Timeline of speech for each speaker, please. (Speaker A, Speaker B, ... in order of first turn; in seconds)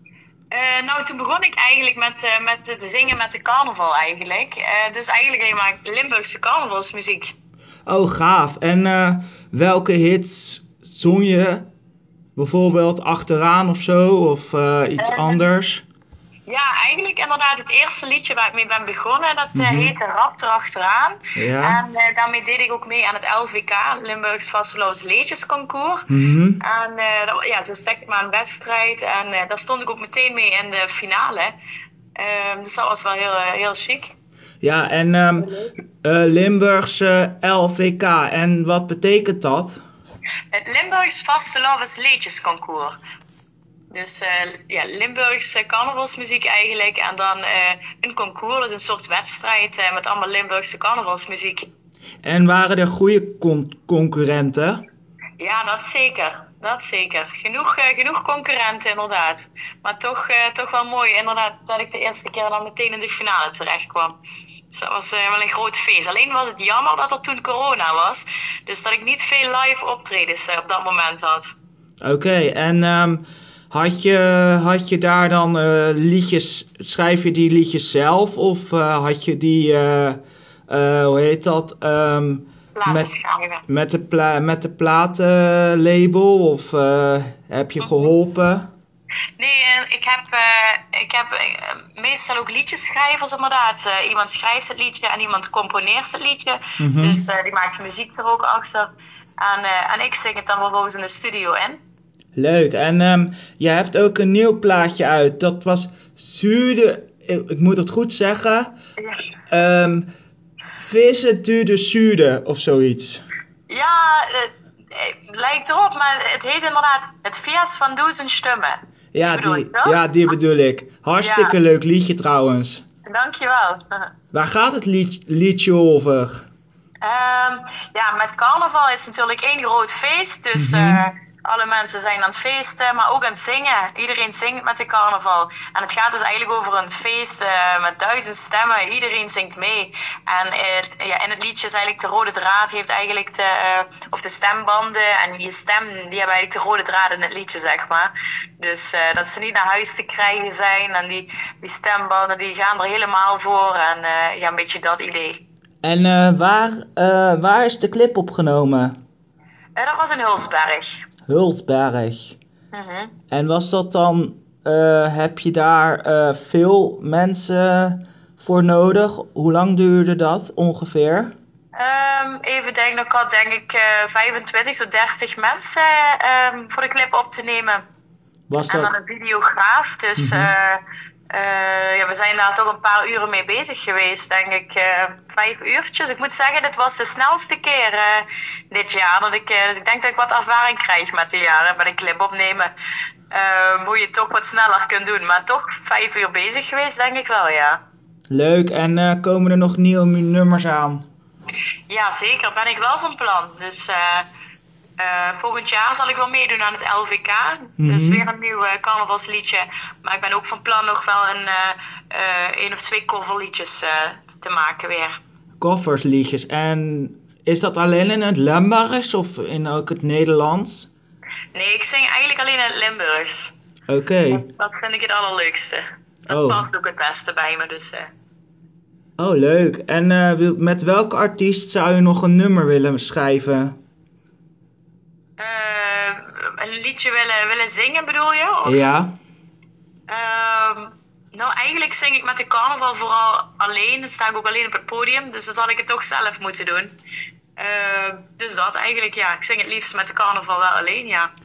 Speaker A: 0.5-7.3, 15.0-15.4, 16.4-26.1, 26.6-31.5, 32.2-34.1, 35.4-35.8, 40.5-43.0, 43.9-51.7, 55.4-64.2, 64.7-71.5, 82.7-83.6, 87.8-88.1, 89.4-101.8, 109.0-109.3, 113.7-120.0, 121.2-121.5, 123.0-124.1, 127.0-155.4, 159.8-161.0, 162.7-163.1, 171.7-177.8, 178.7-192.7, 193.3-197.8, 201.9-204.3, 205.0-215.2, 221.5-223.5, 224.3-228.1, 235.4-238.9, 240.1-246.9, 247.6-251.3
Speaker B: 7.8-11.7, 12.3-15.8, 19.5-19.9, 21.4-21.8, 26.1-26.6, 34.6-35.5, 36.0-39.8, 52.2-54.8, 72.0-83.1, 83.7-88.7, 96.8-97.2, 102.3-108.7, 109.5-110.1, 110.8-113.2, 119.1-122.8, 124.3-126.5, 130.5-131.0, 155.8-159.0, 161.3-162.4, 163.3-171.3, 178.5-178.9, 180.2-180.5, 198.3-201.0, 207.8-208.2, 215.6-220.9, 223.9-224.4, 226.3-226.6, 229.2-233.8, 238.6-239.1